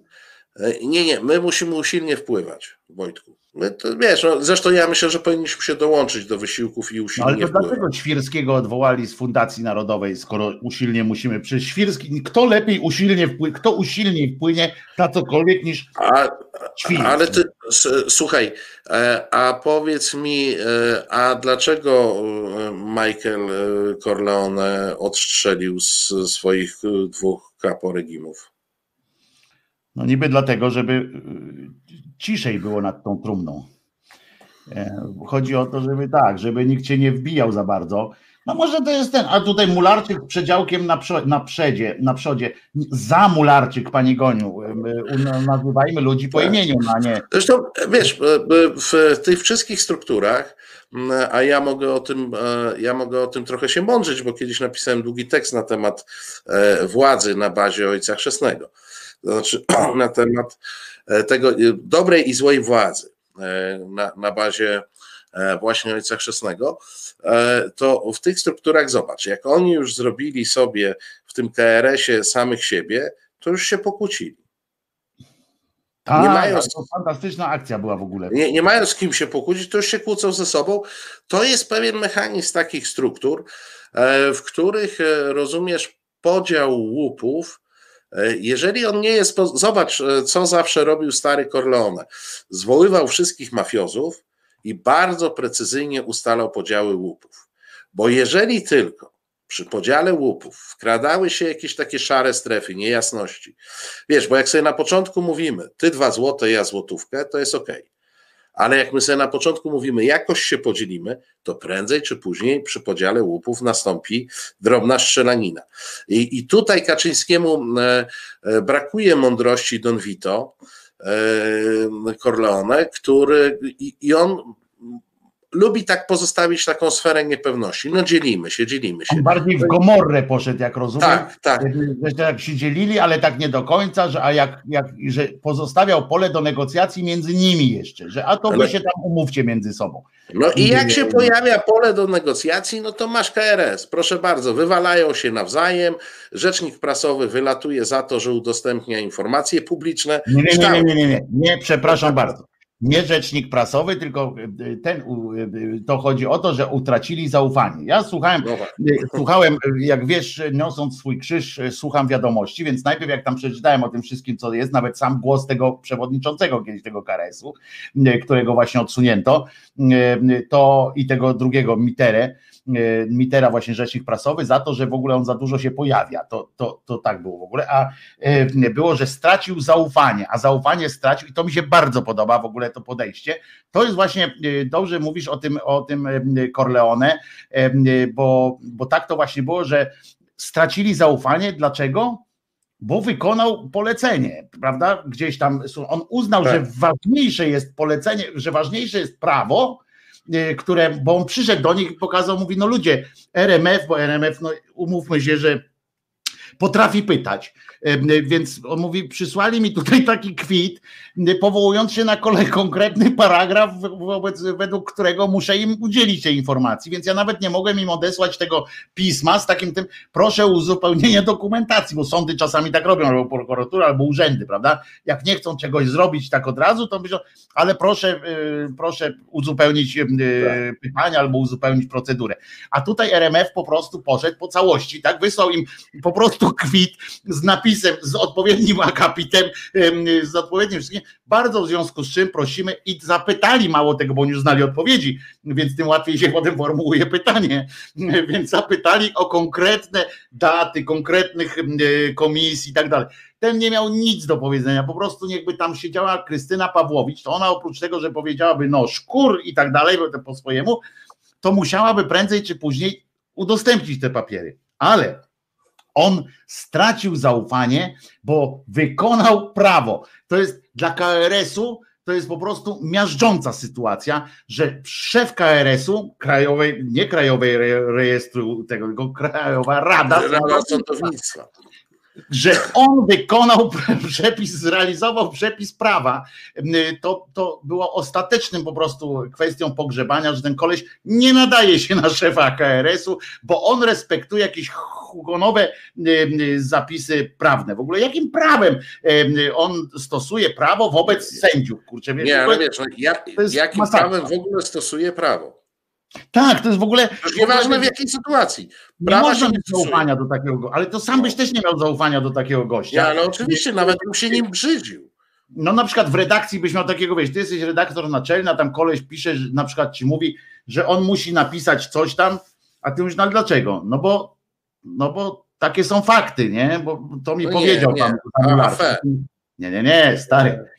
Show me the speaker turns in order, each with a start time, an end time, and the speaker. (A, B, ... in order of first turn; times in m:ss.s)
0:00.6-0:07.8 A
0:07.2-0:15.9 B
0:16.0-0:28.5 A
0:16.8-0:17.4 B
0:30.0-0:33.7 B
0:34.7-0:47.2 B
0:47.3-0:58.7 A
0:59.2-1:14.4 A
1:16.0-1:18.4 B
1:16.2-1:16.8 A
1:18.3-1:27.6 A
1:28.1-1:43.6 A
1:44.1-1:47.8 A
1:48.6-2:05.0 A
2:05.5-2:09.8 A
2:09.1-2:21.3 B
2:11.0-2:11.7 A
2:18.5-2:18.7 A
2:20.3-2:30.9 A
2:30.3-3:12.2 B
2:31.9-2:32.3 A
2:38.4-2:38.7 A
3:12.8-3:25.6 B
3:26.6-4:20.8 B
4:21.4-4:25.2 B
4:26.0-4:41.1 B
4:40.1-4:41.5 A
4:42.3-5:02.6 B
5:02.2-5:05.6 A
5:03.4-5:04.2 B
5:06.3-5:08.0 B
5:07.2-5:10.0 A
5:09.0-5:14.4 B
5:12.9-5:15.1 A
5:15.6-5:30.6 B
5:27.4-5:29.0 A
5:30.3-5:30.6 A